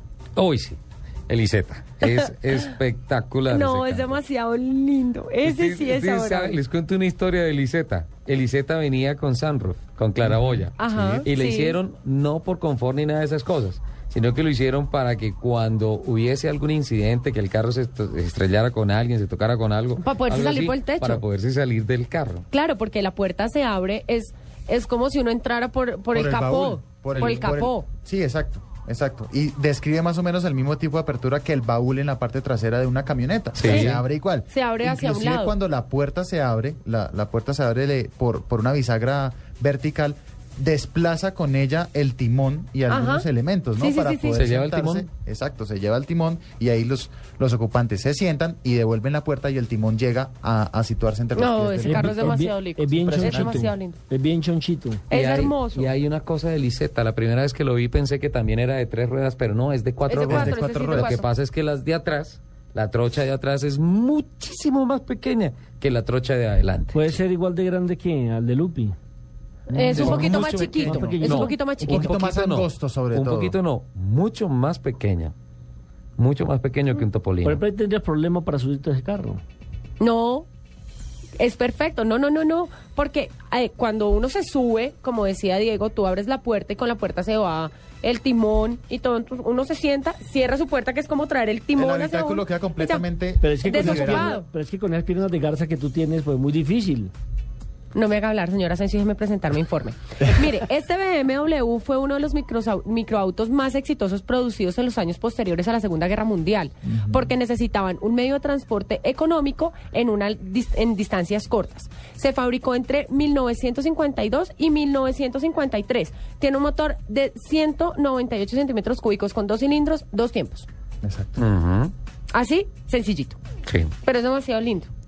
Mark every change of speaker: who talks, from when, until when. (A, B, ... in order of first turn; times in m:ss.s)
0:00.4-0:04.2 A
0:03.5-0:06.6 B
0:05.4-0:22.5 A
0:10.2-0:11.3 C
0:10.8-0:11.8 B
0:20.0-0:21.2 B
0:22.5-0:27.9 B
0:26.1-0:52.4 C
0:27.1-0:27.6 A
0:33.6-0:34.0 A
0:33.6-0:34.0 B
0:34.5-0:35.6 B
0:42.9-0:44.4 B
0:44.4-0:45.1 A
0:51.3-0:54.0 B
0:51.8-0:55.0 D
0:53.0-0:53.6 C
0:55.1-0:55.9 B
0:55.1-1:07.2 A
1:00.1-1:01.3 B
1:00.2-1:01.2 C
1:06.9-1:09.0 D
1:09.7-1:12.2 B
1:09.8-1:11.2 C
1:09.8-1:15.3 A
1:09.9-1:11.6 D
1:11.8-1:13.6 C
1:16.2-1:17.6 A
1:17.4-1:19.4 D
1:20.0-1:20.5 B
1:21.4-1:33.1 B
1:31.8-1:34.3 C
1:33.4-1:37.1 D
1:33.6-1:34.4 B
1:37.9-2:00.7 B
1:46.9-1:47.3 C
2:01.0-2:01.4 C
2:01.4-2:01.9 A
2:02.3-2:03.4 B
2:03.7-2:03.9 A
2:04.0-2:04.9 B